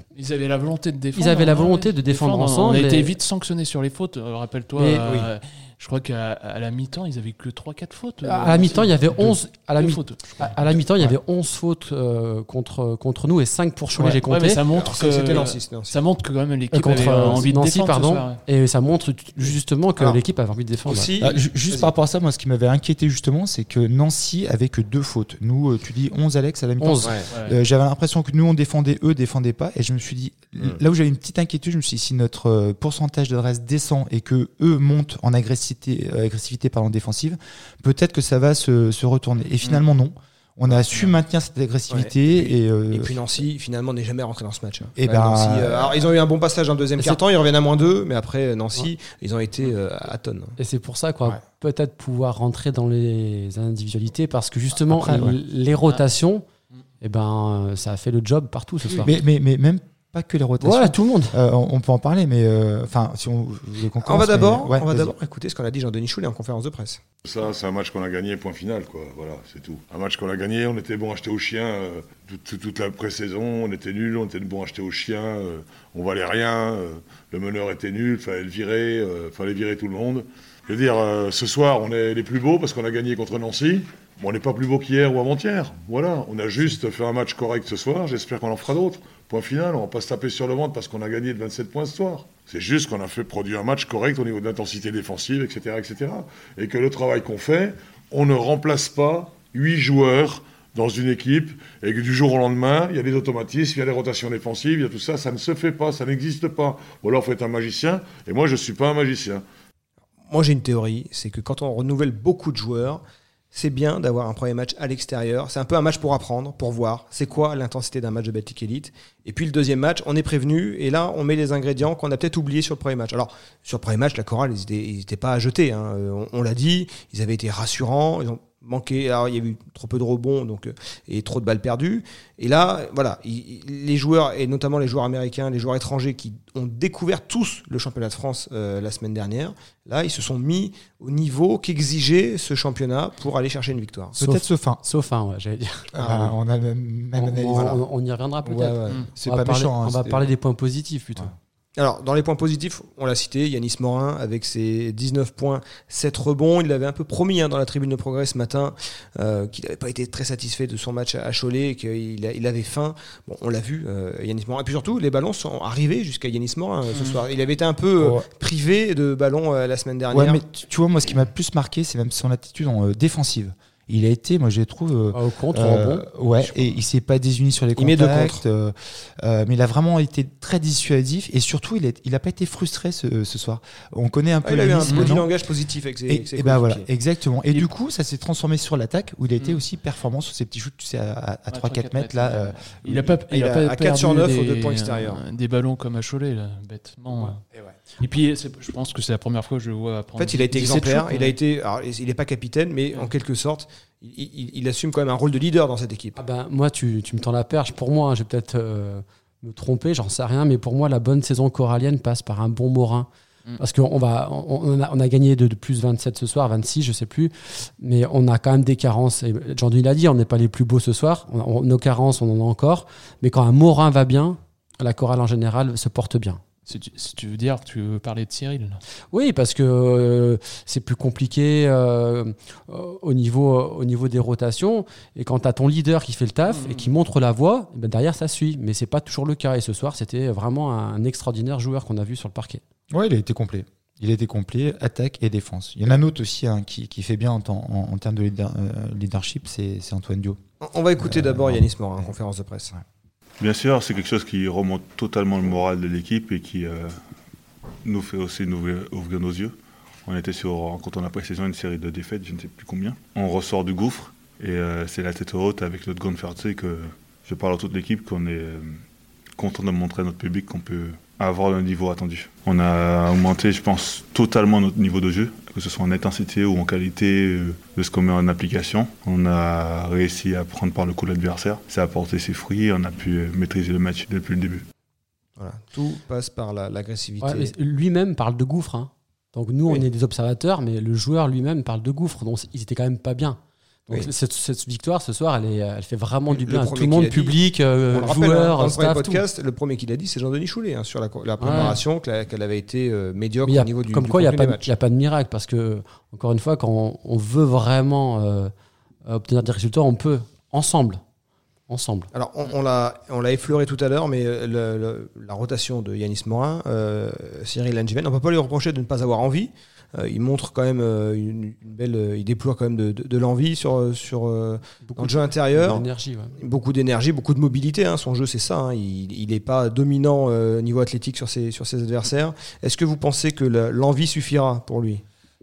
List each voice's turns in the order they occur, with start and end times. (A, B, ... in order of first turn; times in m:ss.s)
0:00.1-0:10.6 A
0:01.1-0:03.1 B
0:05.0-0:05.3 C
0:08.2-0:14.6 B
0:14.0-0:18.4 A
0:14.7-0:16.0 C
0:16.7-0:21.1 B
0:17.0-0:17.4 C
0:20.9-0:21.9 C
0:21.2-0:43.1 D
0:26.8-0:27.1 B
0:27.0-0:27.3 C
0:27.3-0:27.6 A
0:41.9-0:50.6 C
0:45.0-0:46.1 D
0:50.6-0:56.4 B
0:54.9-0:55.4 D
0:57.0-0:59.1 B
0:59.0-1:05.2 D
1:00.6-1:01.4 B
1:04.0-1:07.0 C
1:07.2-1:49.4 E
1:50.3-1:53.0 C
1:53.5-2:24.2 C
2:24.1-2:24.8 D
2:24.2-2:25.9 B
2:25.9-2:26.3 C
2:26.0-2:27.8 D
2:27.1-2:31.3 B
2:28.4-2:30.3 D
2:31.8-2:50.4 C
2:46.9-2:47.2 A
2:48.0-2:48.2 D
2:50.1-3:05.3 D
2:55.1-2:56.1 B
2:57.8-2:58.4 C
3:04.4-3:06.8 C
3:04.9-3:05.2 A
3:06.1-3:13.2 D
3:11.5-3:17.4 A
3:13.3-3:15.2 C
3:18.0-3:21.4 A
3:20.2-3:26.2 C
3:26.2-3:33.1 B
3:33.6-3:46.4 B
3:46.7-3:48.8 A
3:49.1-4:02.6 B
3:56.5-3:56.9 A
4:02.9-4:10.4 D
4:10.6-4:12.7 C
4:11.0-4:12.0 D
4:13.4-4:17.0 F
4:17.8-4:28.8 F
4:29.4-4:44.6 F
4:45.4-4:47.5 C
4:47.2-4:59.2 B
4:56.3-4:57.4 C
4:57.9-5:04.7 C
5:01.4-5:01.8 B
5:03.4-5:08.5 B
5:09.1-5:11.0 B
5:11.7-5:12.1 B
5:12.1-5:25.8 C
5:24.8-5:26.4 B
5:26.4-5:35.0 C